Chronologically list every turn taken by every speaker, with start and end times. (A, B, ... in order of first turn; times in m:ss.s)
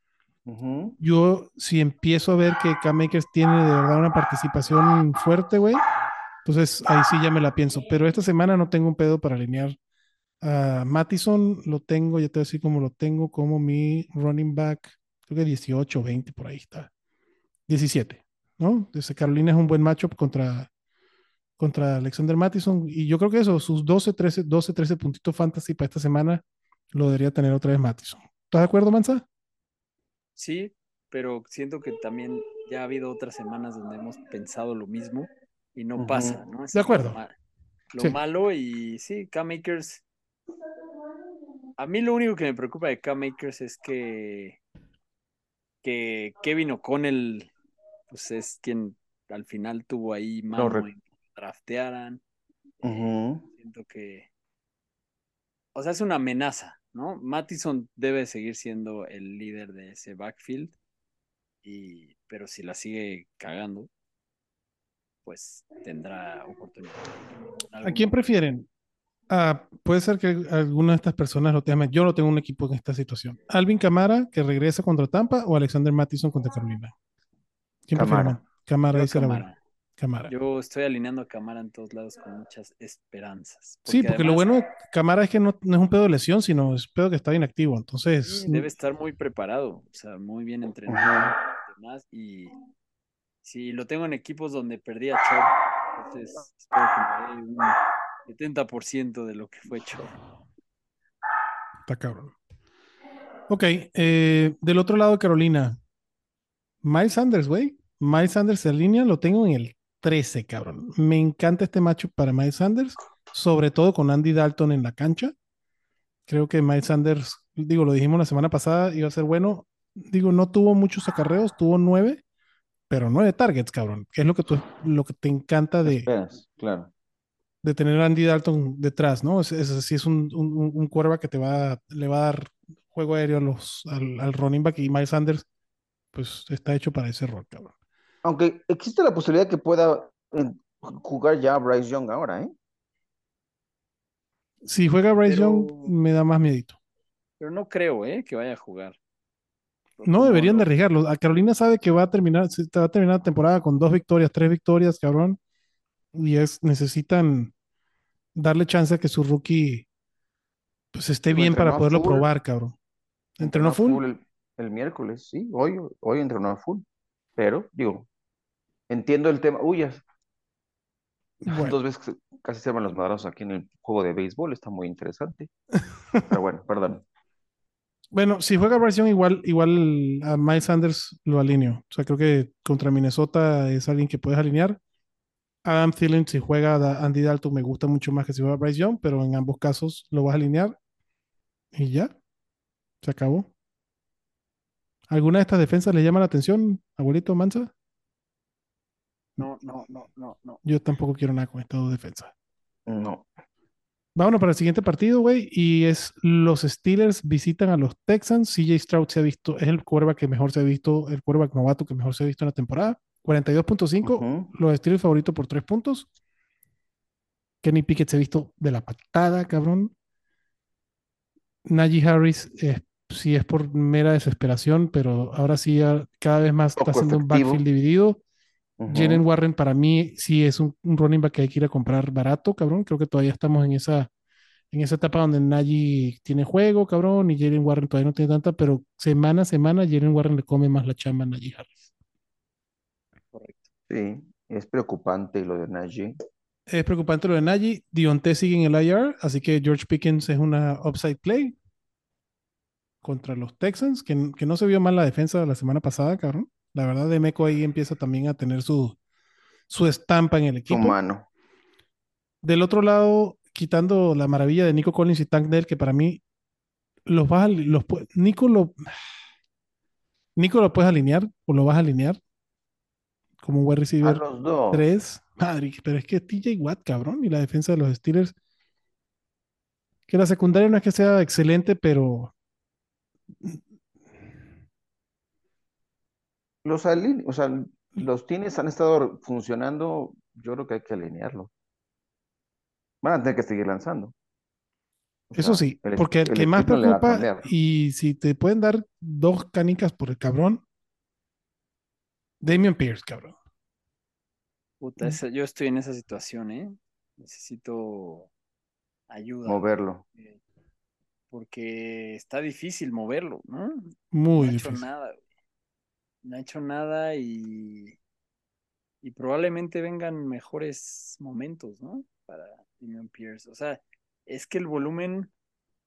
0:00.5-0:01.0 A
0:01.0-0:05.8 B
0:06.4-0:09.8 B
0:10.4-0:16.9 B
0:17.7-0:20.7 B
0:21.6-0:29.3 B
0:30.4-0:37.3 C
0:36.0-0:36.4 A
0:36.7-0:37.2 B
0:37.9-0:40.0 C
0:41.8-0:44.6 C
0:45.8-0:47.5 C
0:48.1-0:52.2 C
0:50.5-0:50.9 A
0:52.8-0:53.5 A
0:53.5-0:54.3 C
0:55.8-1:00.8 C
1:01.6-1:03.9 C
1:05.3-1:07.2 C
1:07.7-1:08.2 C
1:07.8-1:08.7 B
1:09.3-1:16.9 B
1:17.9-1:19.5 B
1:17.9-1:18.4 A
1:18.9-1:19.6 C
1:20.0-1:20.3 B
1:20.3-1:24.5 C
1:23.9-1:28.7 B
1:28.3-1:32.6 C
1:30.9-1:31.3 A
1:33.4-1:40.1 C
1:41.9-1:42.3 B
1:43.5-1:45.8 B
1:46.8-1:55.3 B
1:56.3-2:02.2 B
2:02.9-2:06.1 B
2:05.9-2:06.9 A
2:07.6-2:15.4 B
2:16.1-2:17.7 B
2:18.2-2:22.5 A
2:24.6-2:26.8 B
2:25.2-2:25.9 C
2:27.4-2:29.0 C
2:30.0-2:30.7 C
2:30.0-2:35.4 B
2:36.1-2:37.5 B
2:38.4-2:39.9 B
2:40.9-2:42.8 B
2:41.3-2:42.3 A
2:43.4-2:44.0 B
2:43.4-2:46.8 A
2:47.4-2:48.1 A
2:48.9-2:50.0 A
2:51.4-2:51.8 B
2:51.5-2:55.5 A
2:56.3-2:57.0 A
2:58.1-3:04.8 B
3:05.6-3:10.8 B
3:11.7-3:12.1 B
3:13.0-3:13.5 B
3:15.1-3:17.7 B
3:19.4-3:20.6 C
3:20.6-3:22.3 B
3:22.9-3:23.3 A
3:24.2-3:36.1 B
3:34.0-3:34.5 A
3:37.6-3:39.9 B
3:41.7-3:48.2 B
3:46.8-3:47.6 A
3:48.8-3:49.2 A
3:48.9-3:54.1 B
3:54.7-4:01.9 B
4:03.3-4:03.7 C
4:03.9-4:06.2 A
4:06.7-4:11.6 B
4:13.0-4:19.0 B
4:19.7-4:21.0 B
4:20.7-4:21.3 A
4:22.4-4:26.2 B
4:27.1-4:28.9 B
4:30.4-4:32.2 B
4:33.4-4:38.3 B
4:34.0-4:34.8 A
4:40.1-4:42.3 B
4:46.6-4:51.5 A
4:53.0-4:54.1 A
4:55.3-4:57.5 A
4:55.3-5:00.6 B
5:02.4-5:03.4 B
5:04.8-5:08.3 C
5:09.1-5:10.4 C
5:09.4-5:10.0 A
5:11.3-5:15.2 C
5:14.1-5:14.8 B
5:16.2-5:18.0 C
5:19.0-5:25.3 C